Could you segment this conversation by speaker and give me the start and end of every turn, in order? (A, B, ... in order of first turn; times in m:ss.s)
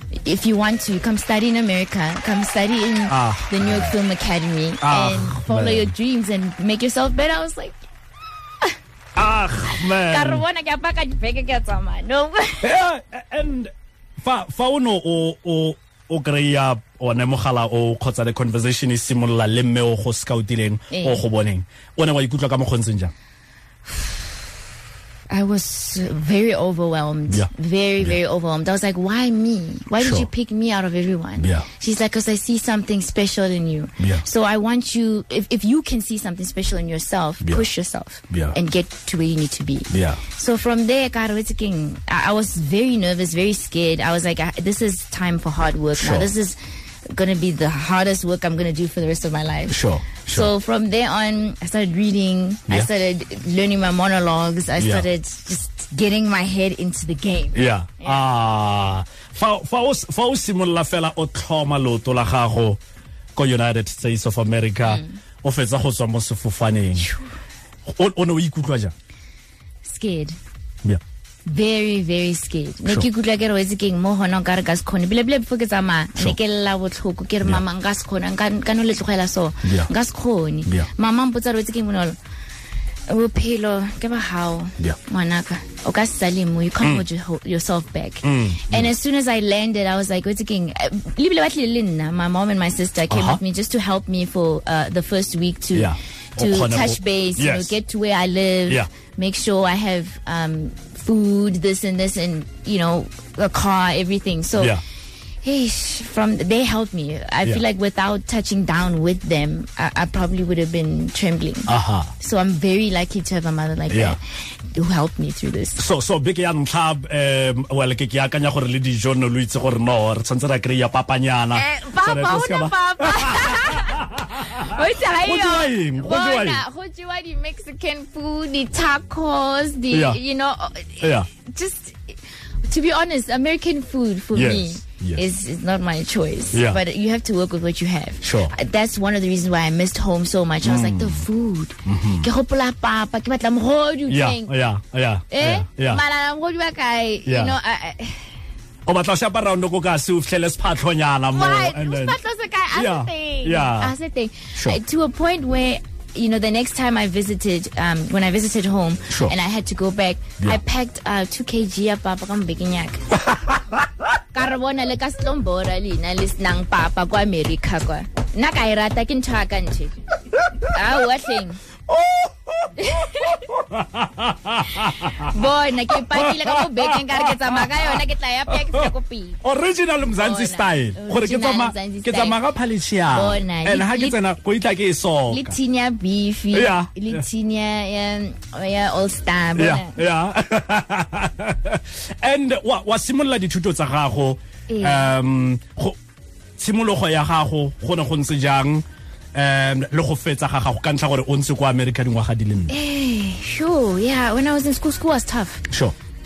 0:00.2-0:07.8 A
0:03.1-0:03.9 B
0:04.8-0:05.9 B
0:09.2-0:10.4 B
0:09.9-0:12.7 A
0:12.6-0:23.1 B
0:20.9-0:21.2 A
0:25.3-0:46.6 A
0:30.0-0:30.3 B
0:31.4-0:31.7 B
0:34.0-0:34.2 B
0:38.3-0:38.6 B
0:39.9-0:40.2 B
0:46.0-0:46.3 B
0:47.1-0:58.2 A
0:49.7-0:50.5 B
0:54.8-0:55.0 B
0:57.5-1:02.8 B
1:03.3-1:07.1 B
1:04.8-1:05.2 A
1:07.0-1:07.3 A
1:07.9-1:08.9 B
1:09.8-1:10.4 A
1:11.4-1:22.2 A
1:19.6-1:19.9 B
1:23.1-1:44.8 A
1:28.2-1:28.9 B
1:33.1-1:33.4 B
1:35.7-1:37.7 B
1:45.4-1:55.8 A
1:51.7-1:52.1 B
1:53.9-1:54.2 B
1:55.8-2:06.6 B
2:01.5-2:24.5 A
2:09.9-2:10.2 B
2:11.0-2:11.3 B
2:14.3-2:15.2 B
2:16.5-2:16.8 B
2:18.2-2:18.5 B
2:20.6-2:21.2 B
2:21.8-2:22.3 B
2:24.1-2:26.0 B
2:25.3-2:28.3 A
2:27.2-2:27.5 B
2:28.8-2:32.2 B
2:31.3-2:43.1 A
2:32.7-2:33.9 B
2:39.1-2:39.4 B
2:43.3-2:43.8 B
2:44.3-2:50.0 A
2:50.6-2:51.6 A
2:51.9-2:58.9 B
2:52.8-2:53.5 A
2:55.0-2:59.4 A
2:59.4-3:05.6 B
3:00.2-3:02.4 A
3:03.1-3:04.2 A
3:05.3-3:10.0 A
3:06.5-3:07.2 B
3:09.6-3:16.0 B
3:14.7-3:15.1 A
3:16.6-3:22.7 B
3:22.7-3:25.6 A
3:25.7-3:25.9 B